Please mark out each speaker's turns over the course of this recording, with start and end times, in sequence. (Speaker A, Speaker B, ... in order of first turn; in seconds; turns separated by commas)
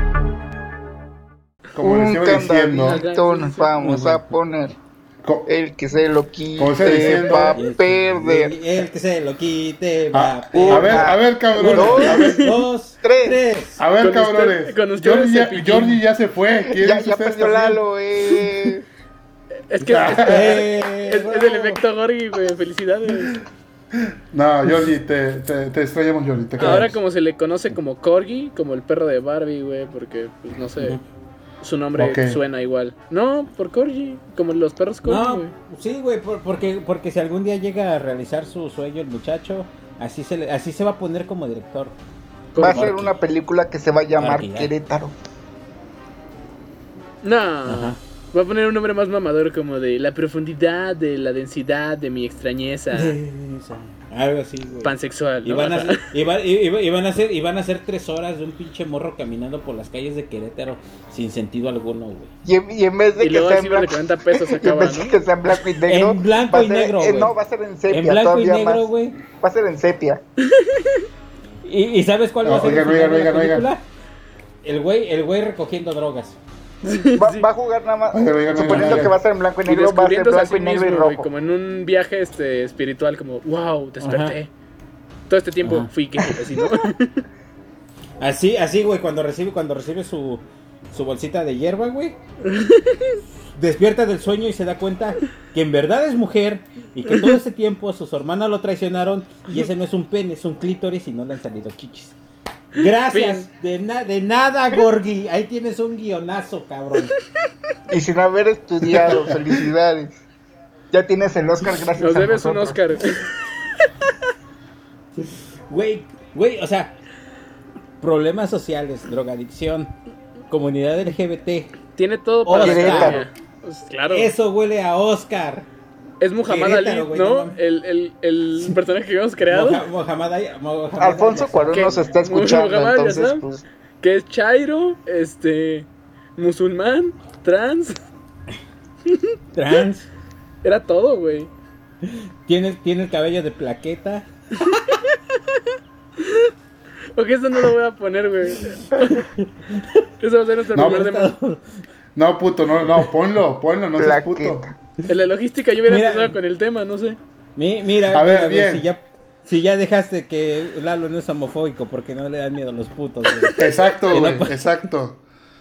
Speaker A: 1.7-3.0, Speaker B: 1.8-4.8, Speaker C: 2.8-3.8, Speaker D: 3.8-4.2, Speaker A: 5.2-5.5, Speaker B: 5.5-8.6, Speaker A: 6.6-7.6, Speaker D: 7.1-13.8, Speaker A: 10.1-12.4, Speaker B: 10.5-12.5, Speaker C: 11.7-12.5, Speaker B: 13.0-13.4, Speaker A: 13.8-17.8, Speaker C: 14.0-16.0, Speaker B: 16.6-18.8, Speaker C: 19.7-23.4, Speaker A: 19.8-20.6, Speaker D: 20.2-21.8, Speaker A: 23.9-26.9, Speaker C: 26.6-31.0, Speaker D: 26.6-26.9, Speaker C: 31.6-35.5, Speaker A: 31.9-32.4, Speaker D: 35.0-41.9, Speaker C: 42.5-42.9, Speaker D: 42.6-43.1, Speaker B: 42.6-45.1, Speaker D: 44.2-44.7, Speaker C: 47.2-53.1, Speaker D: 47.7-48.0, Speaker D: 52.9-54.9, Speaker C: 54.8-56.0, Speaker D: 55.4-62.3, Speaker B: 62.4-68.9, Speaker C: 63.2-65.2, Speaker D: 65.8-67.3, Speaker D: 67.9-69.2, Speaker B: 69.4-70.2, Speaker C: 70.4-71.0, Speaker D: 71.6-73.8, Speaker A: 72.4-73.7, Speaker D: 74.6-76.4, Speaker C: 76.8-77.5, Speaker B: 77.2-81.3, Speaker A: 78.1-79.2, Speaker D: 78.5-79.0, Speaker C: 79.6-84.5, Speaker D: 84.0-84.3, Speaker C: 85.3-87.2, Speaker D: 85.6-85.9, Speaker D: 88.2-92.2, Speaker C: 92.4-93.2, Speaker D: 93.5-102.1, Speaker C: 97.1-97.3, Speaker D: 102.7-107.1, Speaker C: 103.1-103.4, Speaker B: 107.9-110.2, Speaker B: 110.9-112.8, Speaker C: 112.0-113.9, Speaker D: 115.7-116.9, Speaker D: 118.0-119.9, Speaker D: 120.5-121.7, Speaker C: 122.0-124.3, Speaker D: 122.4-123.3, Speaker B: 122.6-123.3, Speaker D: 124.1-125.7, Speaker C: 126.2-129.8, Speaker D: 126.5-127.5, Speaker D: 129.5-132.2, Speaker B: 131.0-133.6, Speaker C: 131.7-133.4, Speaker C: 134.0-138.0, Speaker D: 139.5-140.1, Speaker C: 140.6-141.5, Speaker D: 142.0-144.3, Speaker C: 144.7-145.2, Speaker C: 146.2-146.5, Speaker C: 147.2-149.2, Speaker D: 149.1-150.0, Speaker C: 150.2-151.3, Speaker D: 150.7-151.6, Speaker A: 152.1-154.6, Speaker B: 154.0-154.7, Speaker C: 155.1-157.2, Speaker D: 155.9-156.3, Speaker D: 157.6-164.6, Speaker A: 158.1-158.8, Speaker A: 163.6-165.2